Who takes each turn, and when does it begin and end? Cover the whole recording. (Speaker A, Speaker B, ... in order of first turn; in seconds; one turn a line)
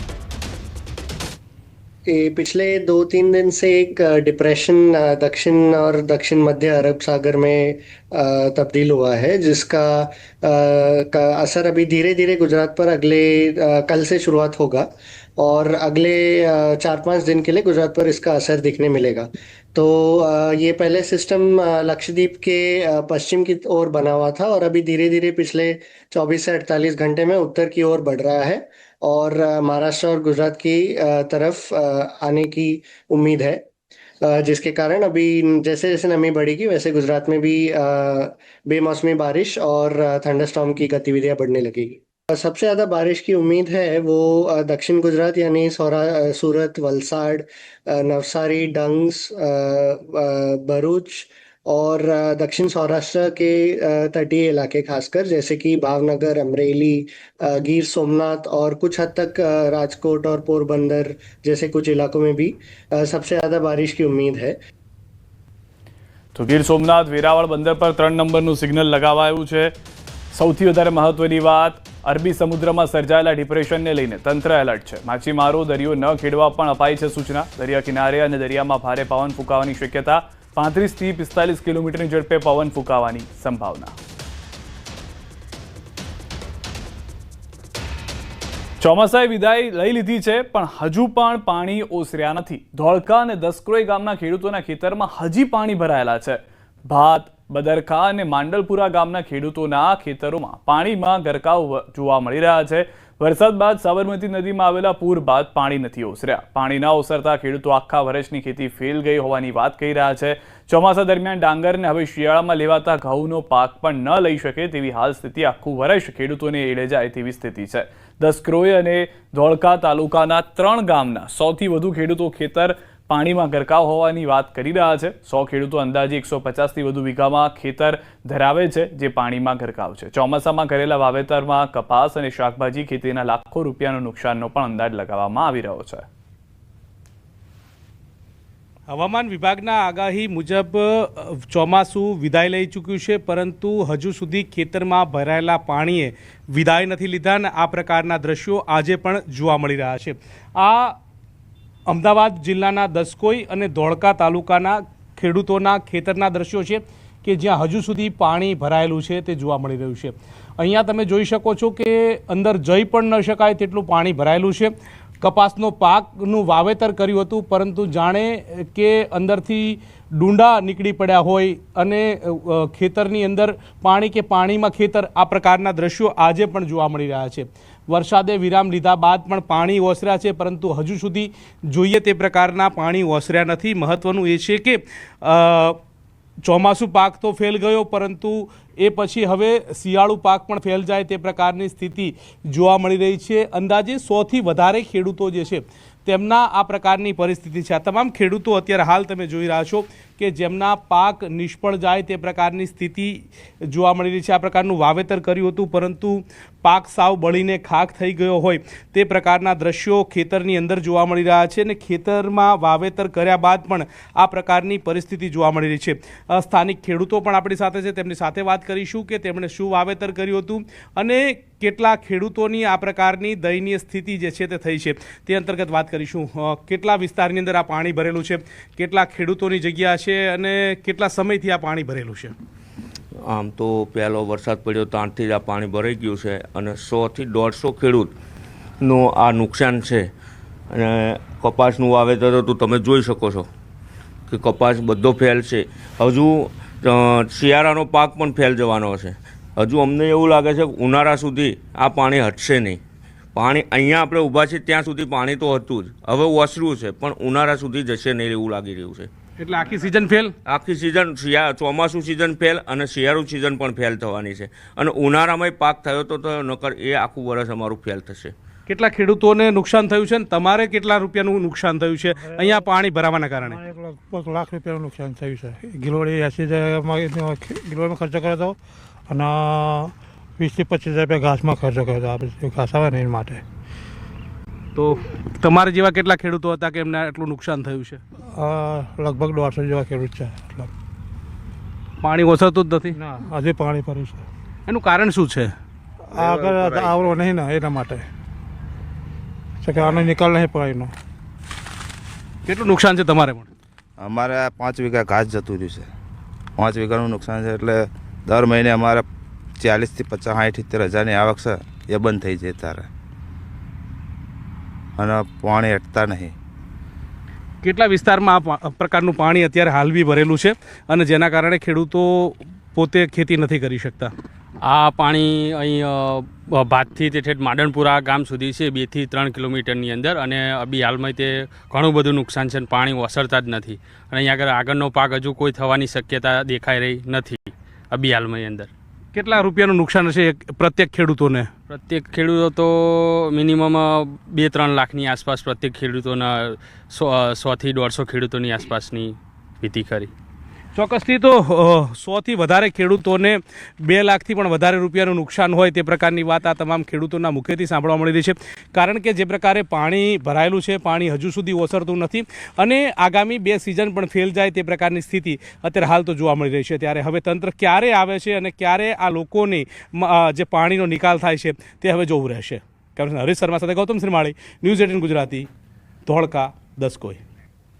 Speaker A: 2.1-33.6
Speaker A: 34.2-64.6
Speaker B: 66.3-69.7
Speaker B: 70.3-84.0
Speaker B: 88.8-136.1
Speaker C: 138.9-151.0
Speaker C: 151.9-185.8
Speaker C: 186.4-232.3
Speaker D: 233.2-238.1
Speaker D: 238.8-240.1
Speaker D: 240.7-243.5
Speaker D: 244.3-252.8
Speaker D: 253.3-259.1
Speaker C: 259.4-260.3
Speaker D: 260.5-268.3
Speaker C: 268.7-273.6
Speaker E: 272.2-272.6
Speaker E: 273.5-278.6
Speaker E: 279.1-283.4
Speaker C: 284.8-288.0
Speaker E: 288.4-290.7
Speaker C: 292.0-292.9
Speaker E: 292.9-294.2
Speaker C: 294.7-295.5
Speaker E: 296.1-298.1
Speaker F: 296.1-297.1
Speaker E: 299.6-300.9
Speaker C: 302.5-303.5
Speaker F: 304.0-305.9
Speaker F: 306.6-309.1
Speaker F: 309.6-312.9
Speaker F: 315.0-316.3
Speaker C: 317.6-324.1
Speaker G: 324.7-338.7
Speaker C: 339.1-341.5
Speaker G: 341.7-350.1
Speaker C: 350.8-375.5
Speaker C: 376.1-377.2